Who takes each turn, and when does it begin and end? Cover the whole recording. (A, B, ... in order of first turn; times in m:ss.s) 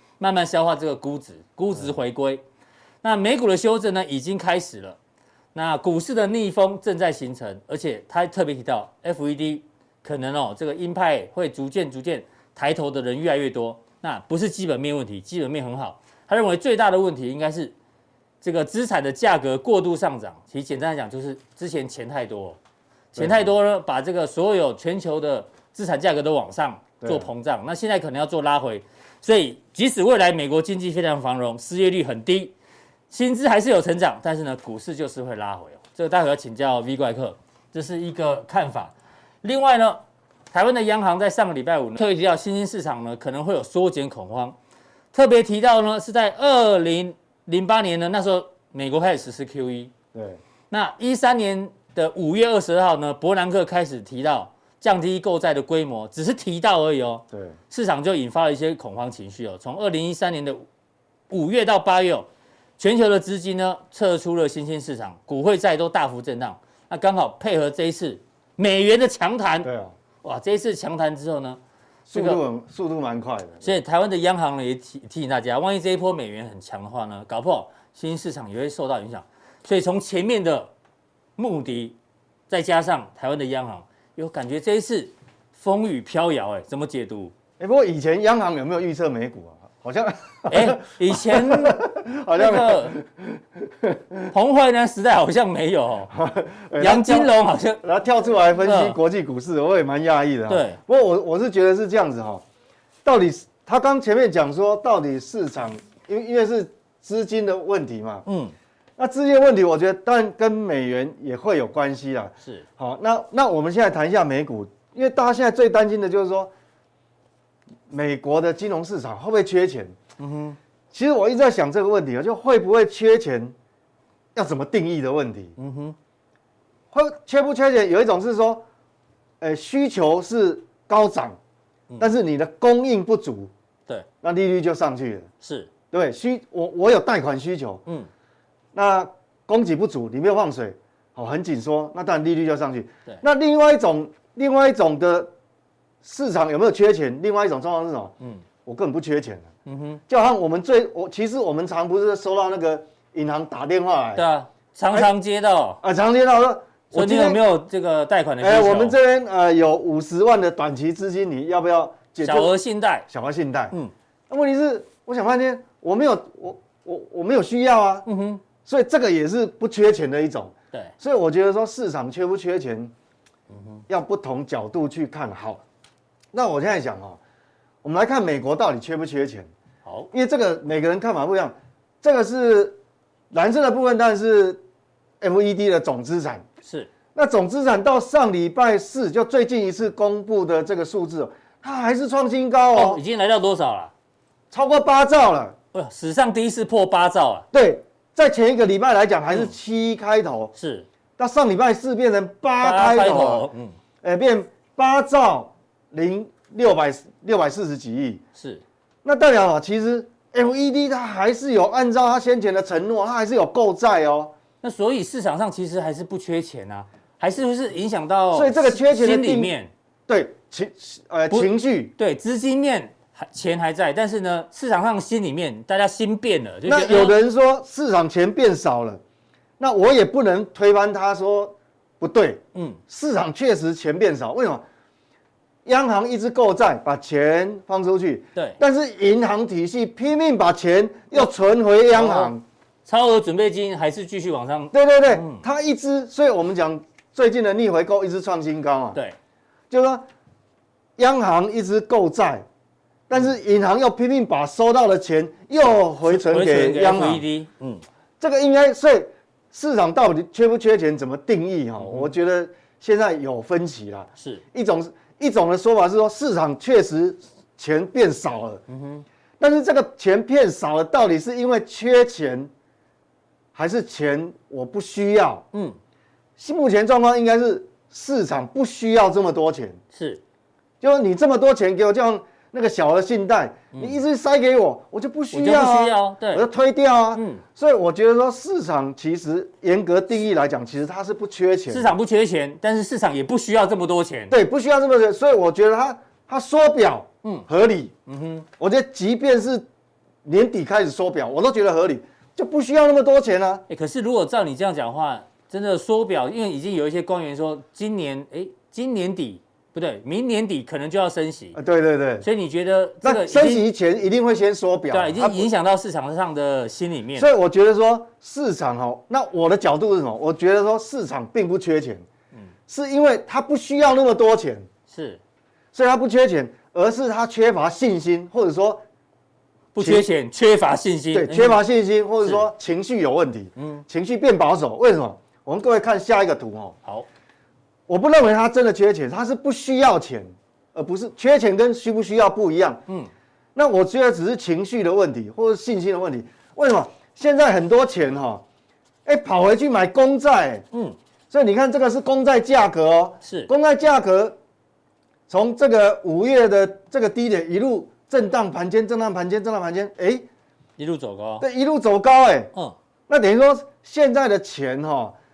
0:00.2-0:02.4 A
0:03.0-0:05.0 A
0:05.5-0:17.7 A
0:18.4-0:22.6 A
0:23.2-0:23.5 B
0:23.2-0:32.5 A
0:27.0-0:27.3 B
0:33.1-0:40.0 A
0:40.5-0:44.6 A
0:45.1-0:49.9 A
0:50.1-0:50.4 B
0:50.7-1:00.6 A
0:57.3-0:57.6 B
1:01.3-1:02.3 A
1:02.8-1:09.7 A
1:09.6-1:10.0 B
1:10.2-1:11.6 A
1:12.1-1:13.7 B
1:12.1-1:12.4 A
1:13.6-1:20.7 A
1:21.4-1:22.0 A
1:22.5-1:27.3 A
1:27.6-1:34.3 B
1:30.5-1:31.8 A
1:32.3-1:33.0 A
1:34.3-1:36.1 A
1:36.1-1:42.4 B
1:36.8-1:37.8 A
1:38.6-1:39.0 A
1:40.5-1:40.8 A
1:43.0-1:48.3 B
1:48.3-1:48.5 A
1:49.0-1:56.5 B
1:57.9-2:00.0 B
2:00.2-2:00.6 A
2:00.9-2:03.6 B
2:04.3-2:05.6 B
2:05.6-2:06.0 A
2:06.9-2:08.6 B
2:09.4-2:11.4 B
2:12.0-2:13.5 B
2:14.2-2:15.3 B
2:15.4-2:15.7 A
2:15.9-2:17.8 B
2:18.7-2:25.3 B
2:26.0-2:28.1 B
2:28.6-2:29.5 B
2:29.7-2:30.0 A
2:30.1-2:34.2 B
2:34.2-2:35.8 A
2:35.8-2:37.4 B
2:36.9-2:39.0 A
2:38.4-2:42.5 B
2:42.2-2:43.1 A
2:43.1-2:43.7 B
2:44.3-2:48.1 B
2:48.1-2:48.4 A
2:48.6-2:52.9 B
2:53.5-2:53.8 A
2:53.9-2:55.6 B
2:56.3-2:57.2 B
2:57.8-2:59.5 B
2:59.8-3:00.1 A
3:00.1-3:02.8 B
3:03.3-3:04.6 B
3:05.2-3:06.5 B
3:06.6-3:06.9 A
3:07.1-3:13.0 B
3:12.7-3:13.9 A
3:14.5-3:15.6 B
3:15.7-3:17.5 A
3:17.5-3:20.5 B
3:20.6-3:20.9 A
3:21.2-3:23.5 B
3:22.6-3:23.8 A
3:24.0-3:28.2 B
3:28.4-3:28.6 A
3:29.0-3:34.3 B
3:34.6-3:39.7 A
3:38.3-3:39.5 B
3:40.1-3:41.9 B
3:41.3-3:47.2 A
3:46.7-3:49.0 B
3:49.6-3:54.6 B
3:52.5-3:52.8 A
3:55.6-4:02.4 B
4:01.9-4:02.3 A
4:02.9-4:05.4 A
4:04.7-4:09.0 B
4:09.7-4:10.0 B
4:11.0-4:12.5 B
4:13.1-4:17.2 B
4:16.0-4:17.8 A
4:18.2-4:28.6 B
4:21.8-4:22.1 A
4:28.7-4:29.0 A
4:29.4-4:32.5 B
4:33.6-4:35.4 B
4:36.4-4:39.8 B
4:39.9-4:40.2 A
4:40.8-4:51.9 B
4:43.7-4:44.0 A
4:45.3-4:46.4 A
4:47.2-4:47.4 A
4:51.7-4:54.4 A
4:54.3-4:57.9 B
4:58.1-4:58.5 A
4:58.6-4:59.7 B
5:00.2-5:03.6 B
5:03.7-5:11.6 A
5:11.6-5:12.3 B
5:12.2-5:13.6 A
5:13.0-5:15.5 B
5:14.9-5:17.3 A
5:17.2-5:22.0 B
5:22.7-5:24.7 B
5:24.9-5:25.2 A
5:25.7-5:28.8 B
5:29.8-5:31.6 A
5:29.8-5:30.1 B
5:31.1-5:36.8 B
5:33.6-5:33.8 A
5:37.9-5:42.8 B
5:43.6-5:48.4 B
5:49.0-5:50.7 B
5:51.3-5:54.4 B
5:53.2-5:53.5 A
5:55.3-6:00.3 B
6:00.8-6:01.5 A
6:01.4-6:02.5 B
6:03.1-6:05.2 B